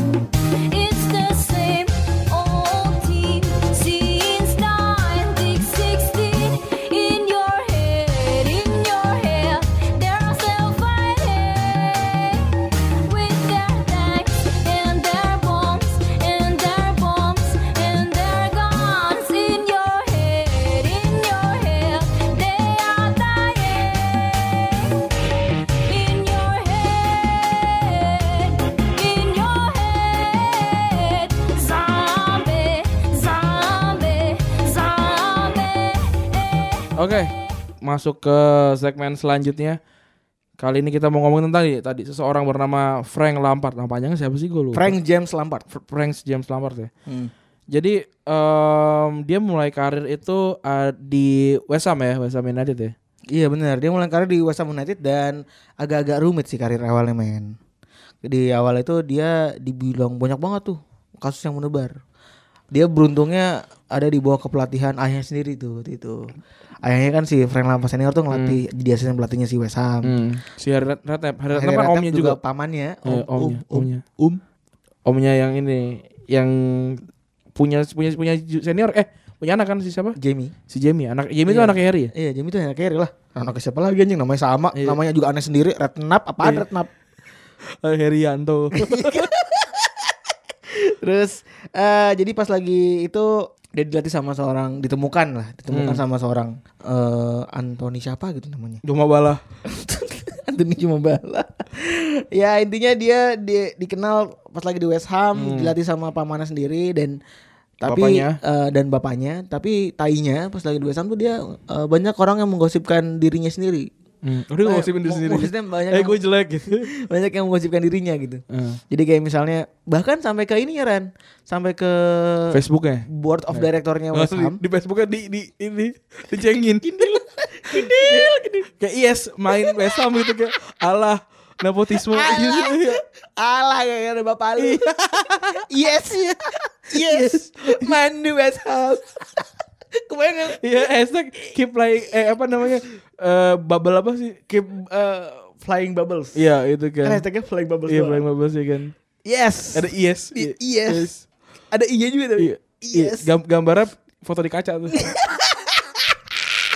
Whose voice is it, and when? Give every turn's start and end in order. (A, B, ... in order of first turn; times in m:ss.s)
0:00.4-0:25.1 A
0:25.7-0:36.8 A
0:37.0-0:39.8 B
0:40.6-0:44.9 B
0:44.7-0:45.6 C
0:45.7-0:46.9 B
0:47.7-0:52.9 B
0:53.3-0:57.6 C
0:58.2-1:02.0 C
1:02.7-1:06.3 C
1:06.8-1:10.2 C
1:08.3-1:08.6 B
1:10.0-1:12.4 B
1:11.5-1:14.4 C
1:13.0-1:14.0 B
1:15.0-1:17.0 B
1:17.5-1:20.2 B
1:20.2-1:20.5 C
1:20.7-1:22.1 B
1:21.5-1:26.9 C
1:24.7-1:25.0 B
1:27.8-1:29.3 B
1:28.7-1:30.0 C
1:30.7-1:38.8 C
1:35.7-1:36.0 B
1:38.8-1:39.4 B
1:39.6-1:47.2 C
1:45.3-1:45.7 B
1:47.8-1:53.9 C
1:47.8-1:48.4 B
1:54.2-1:56.9 B
1:54.6-1:56.2 C
1:56.8-2:04.6 C
1:58.5-1:58.8 B
2:02.5-2:07.2 B
2:06.8-2:08.7 C
2:07.7-2:13.0 B
2:09.5-2:10.3 C
2:12.0-2:19.4 C
2:14.6-2:15.6 B
2:16.9-2:17.9 B
2:20.0-2:20.6 C
2:20.6-2:24.4 B
2:24.5-2:26.4 C
2:26.3-2:27.2 B
2:27.0-2:28.2 C
2:27.9-2:28.9 B
2:29.2-2:31.1 C
2:29.7-2:31.2 B
2:31.7-2:33.3 C
2:32.4-2:35.0 B
2:34.9-2:36.2 C